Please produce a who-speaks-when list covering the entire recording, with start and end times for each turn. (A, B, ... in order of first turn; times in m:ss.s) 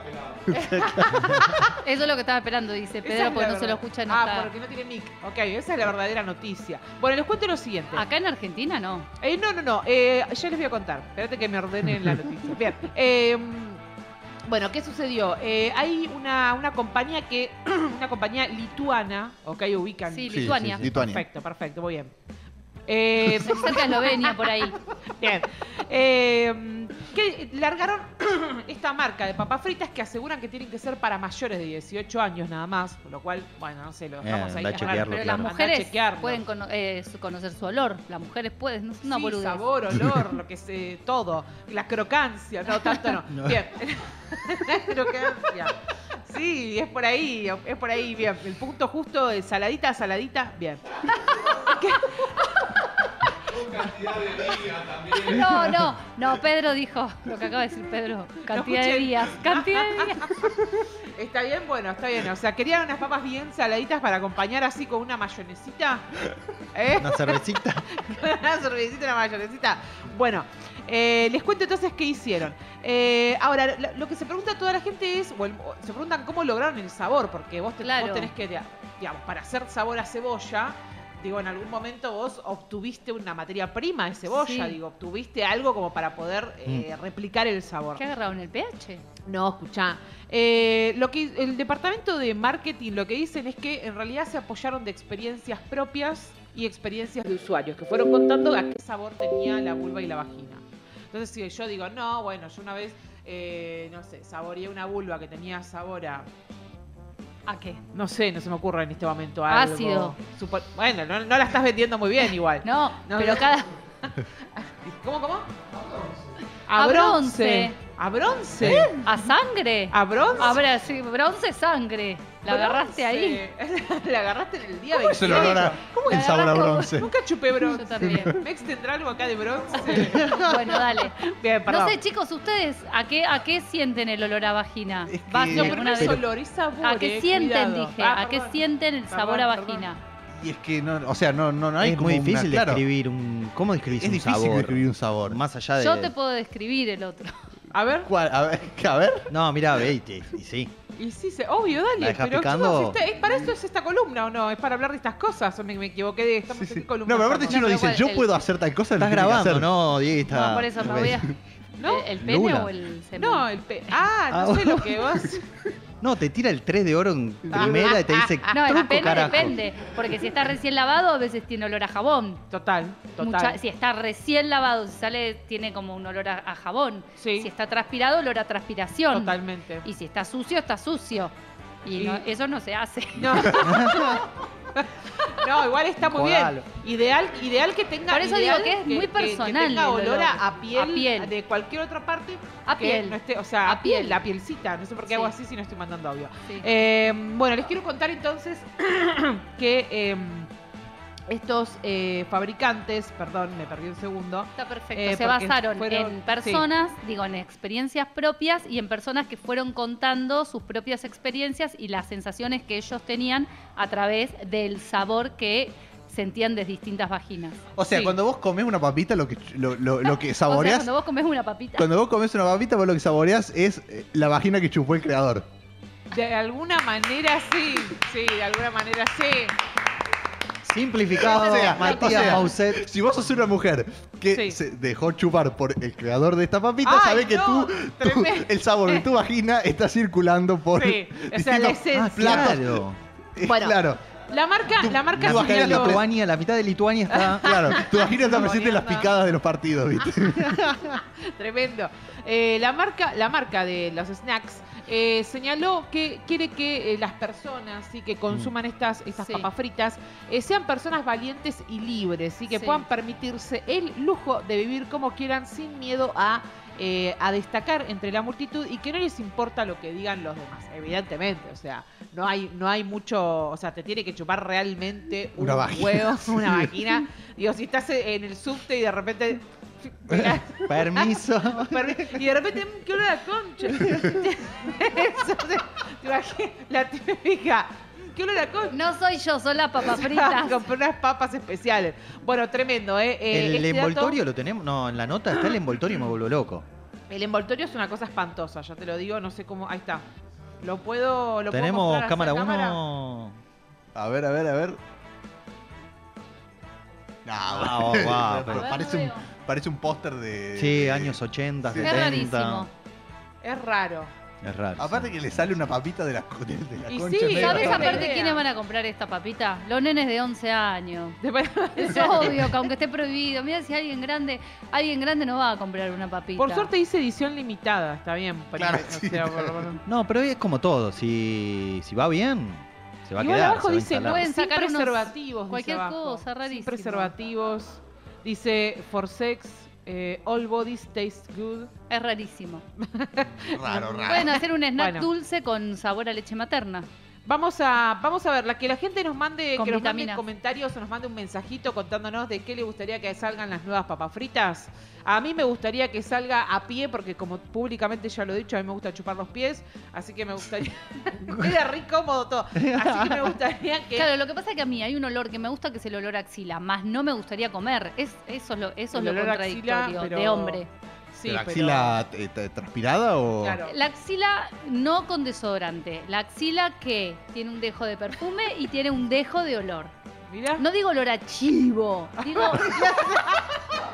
0:00.4-0:01.8 A
0:00.5-0:01.4 B
0:01.8-0:04.5 C
0:03.0-0:08.0 A
0:07.9-0:09.1 C
0:09.2-0:13.8 A
0:14.5-0:22.1 A
0:20.1-0:20.8 C
0:20.3-0:21.2 B
0:20.5-0:20.9 D
0:22.9-0:36.4 A
0:23.2-0:24.8 C
0:34.2-0:35.5 D
0:35.0-0:39.6 C
0:39.0-0:55.4 A
0:54.8-1:00.4 C
0:58.5-1:00.6 A
1:01.1-1:07.4 A
1:07.0-1:08.1 D
1:08.0-1:28.1 A
1:17.8-1:18.3 C
1:24.3-1:24.8 C
1:28.0-1:29.0 C
1:29.2-1:46.3 A
1:47.5-1:47.8 C
1:47.9-1:53.6 A
1:49.5-1:50.1 C
1:52.6-1:53.7 C
1:54.5-1:55.5 A
1:56.7-1:59.2 A
1:56.7-1:57.8 C
1:58.6-1:58.9 B
1:59.0-2:03.4 C
1:59.9-2:00.6 A
2:02.4-2:05.8 A
2:04.9-2:07.1 B
2:06.0-2:07.1 C
2:07.0-2:12.0 A
2:07.6-2:08.4 C
2:09.9-2:11.2 C
2:11.7-2:16.2 C
2:15.0-2:16.2 B
2:15.5-2:18.6 A
2:16.8-2:20.0 C
2:19.1-2:19.9 A
2:20.4-2:22.8 B
2:21.8-2:26.1 D
2:23.9-2:25.4 B
2:25.8-2:27.3 C
2:27.7-2:28.1 A
2:28.0-2:29.3 B
2:29.3-2:30.7 D
2:31.0-2:37.9 A
2:32.0-2:33.0 D
2:36.5-2:39.7 B
2:37.4-2:38.4 C
2:39.0-2:41.2 D
2:40.3-2:43.5 C
2:41.8-2:42.1 A
2:42.2-2:42.7 D
2:43.2-2:45.5 A
2:44.3-2:45.2 D
2:46.0-2:49.5 D
2:47.5-2:49.4 A
2:48.5-2:52.4 C
2:52.5-2:53.6 A
2:53.2-3:03.5 C
2:57.2-2:57.5 A
2:59.1-2:59.9 A
3:02.0-3:02.2 A
3:03.2-3:20.5 A
3:03.6-3:04.2 D
3:06.0-3:06.6 D
3:08.1-3:11.3 C
3:12.6-3:14.2 C
3:15.0-3:15.3 C
3:21.3-3:26.7 A
3:24.6-3:37.6 C
3:37.8-3:40.9 B
3:37.9-3:38.2 A
3:40.0-3:41.9 C
3:41.8-3:45.4 B
3:46.1-3:49.6 A
3:50.6-3:52.8 D
3:51.1-4:02.8 B
3:51.6-3:52.0 A
3:51.8-3:52.5 C
3:54.3-3:54.6 A
3:56.8-3:59.0 A
4:00.7-4:02.6 A
4:01.9-4:03.0 D
4:03.4-4:04.0 B
4:03.4-4:06.0 A
4:04.8-4:06.0 B
4:05.2-4:07.6 D
4:07.1-4:09.1 A
4:07.4-4:10.8 B
4:10.5-4:10.8 D
4:10.9-4:48.8 A
4:19.2-4:19.5 C
4:22.5-4:22.8 C
4:35.4-4:36.7 B
4:40.2-4:42.2 D
4:48.7-4:50.6 C
4:49.8-4:54.2 A
4:53.3-4:56.6 D
4:57.1-5:00.0 A
5:00.6-5:02.8 A
5:01.5-5:03.4 D
5:03.9-5:04.8 B
5:07.2-5:12.2 B
5:07.5-5:08.7 D
5:08.5-5:09.2 C
5:10.6-5:12.7 D
5:11.7-5:12.7 C
5:13.4-5:14.1 A
5:14.4-5:15.4 D
5:14.8-5:18.1 B
5:16.9-5:18.4 A
5:17.3-5:21.2 C
5:21.2-5:22.6 A
5:21.8-5:26.7 C
5:26.4-5:29.8 A
5:28.5-5:29.6 B
5:29.9-5:34.3 D
5:33.2-5:41.7 A
5:34.0-5:37.1 C
5:41.9-5:42.6 C
5:42.8-5:45.1 A
5:43.5-5:44.4 B
5:44.0-5:46.9 C
5:47.2-6:04.1 A
5:49.6-5:50.2 C
6:03.9-6:10.7 C
6:08.9-6:10.6 A
6:11.1-6:12.0 A
6:11.2-6:13.6 B
6:13.4-6:13.7 A
6:13.6-6:19.9 C
6:20.3-6:20.6 A
6:20.6-6:23.0 C
6:22.2-6:23.8 A